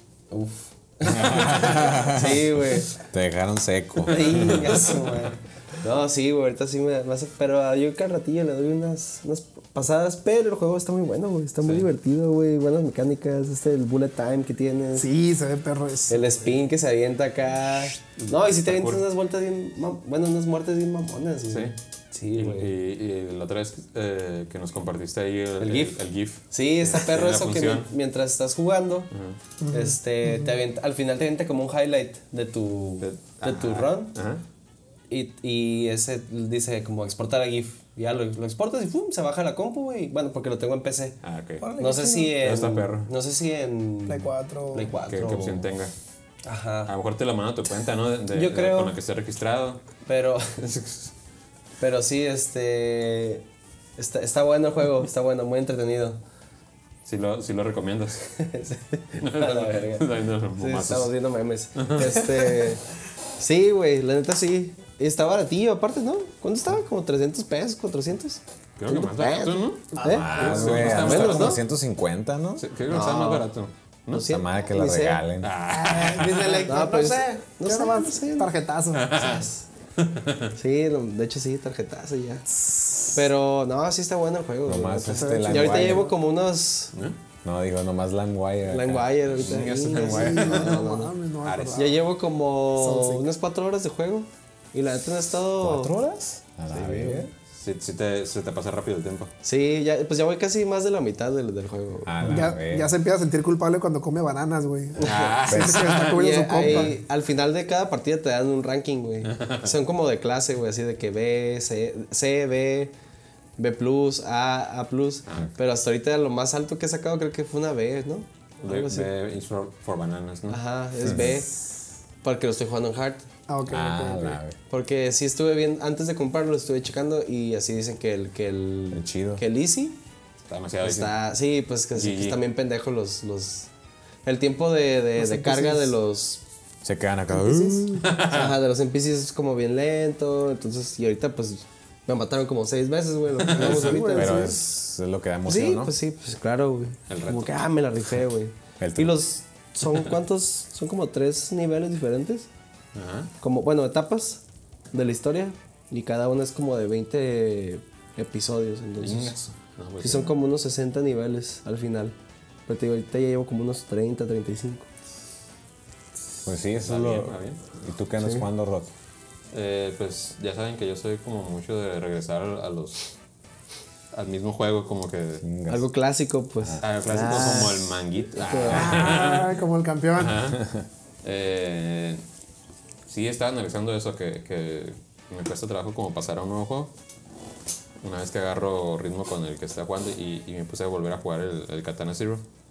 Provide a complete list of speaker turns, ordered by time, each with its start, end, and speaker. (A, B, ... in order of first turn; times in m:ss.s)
0:00.3-0:02.9 A
0:01.1-0:04.7 B
0:04.0-0:15.1 A
0:04.1-0:05.3 C
0:15.0-0:16.2 D
0:16.1-0:22.7 A
0:18.2-0:19.0 C
0:21.5-0:21.8 C
0:22.4-0:27.9 C
0:25.6-0:26.0 A
0:26.5-0:29.1 A
0:29.1-0:29.4 C
0:29.6-0:30.5 D
0:29.7-0:34.2 A
0:33.0-0:34.4 C
0:35.1-0:41.2 A
0:41.2-0:41.7 C
0:41.6-0:42.4 D
0:41.8-0:45.7 A
0:42.4-0:43.1 C
0:44.1-0:44.9 D
0:45.0-0:45.9 C
0:46.4-0:46.9 A
0:46.9-0:49.8 C
0:48.3-0:49.0 A
0:50.1-0:50.6 A
0:50.6-0:51.1 C
0:51.8-0:53.4 A
0:54.0-0:56.2 A
0:57.1-0:58.2 C
0:58.2-1:02.8 A
0:59.2-1:01.1 C
1:01.8-1:02.2 C
1:03.4-1:11.6 A
1:08.8-1:11.6 C
1:09.9-1:11.2 D
1:10.0-1:12.6 B
1:12.6-1:14.3 C
1:12.9-1:13.5 A
1:14.1-1:15.2 A
1:14.2-1:15.5 B
1:15.4-1:16.7 C
1:15.7-1:19.6 D
1:16.7-1:18.5 A
1:18.9-1:19.4 C
1:20.0-1:20.5 C
1:20.6-1:22.5 A
1:23.1-1:26.9 A
1:24.7-1:26.1 B
1:25.1-1:26.1 D
1:27.4-1:29.1 B
1:28.7-1:31.1 A
1:29.4-1:30.9 C
1:29.8-1:32.0 D
1:31.4-1:31.9 C
1:31.7-1:36.0 A
1:32.8-1:33.3 D
1:35.6-1:37.3 B
1:36.7-1:37.3 A
1:37.6-1:39.3 C
1:39.4-1:42.4 A
1:42.0-1:42.9 B
1:42.2-1:46.9 D
1:45.0-1:46.8 C
1:45.0-1:52.9 A
1:45.5-1:45.9 B
1:49.3-1:49.7 C
1:53.6-1:59.1 A
1:58.6-2:00.6 C
2:00.5-2:01.5 A
2:01.0-2:01.4 B
2:02.2-2:03.3 A
2:03.5-2:04.4 D
2:03.7-2:04.6 B
2:04.7-2:10.0 A
2:08.9-2:09.4 B
2:10.5-2:11.1 C
2:10.8-2:13.7 A
2:12.0-2:12.4 C
2:14.2-2:16.4 A
2:15.2-2:15.9 D
2:16.8-2:18.1 B
2:17.4-2:17.8 D
2:18.0-2:18.5 C
2:18.2-2:24.6 A
2:23.4-2:24.1 C
2:23.6-2:24.5 D
2:24.1-2:26.0 B
2:25.5-2:32.5 A
2:27.1-2:27.6 C
2:28.8-2:29.2 B
2:32.9-2:33.3 C
2:33.4-2:39.4 A
2:39.0-2:40.3 C
2:40.0-2:42.2 A
2:42.7-2:44.9 A
2:46.4-2:48.9 B
2:46.8-2:47.7 C
2:49.5-2:53.1 C
2:54.1-2:55.4 C
2:55.4-2:55.8 B
2:55.7-2:57.8 A
2:56.6-2:57.8 B
2:56.8-2:59.6 C
2:58.4-2:59.0 A
2:58.6-3:00.4 D
3:00.2-3:00.6 C
3:00.6-3:00.9 B
3:01.2-3:02.2 C
3:03.1-3:06.9 C
3:08.0-3:12.4 C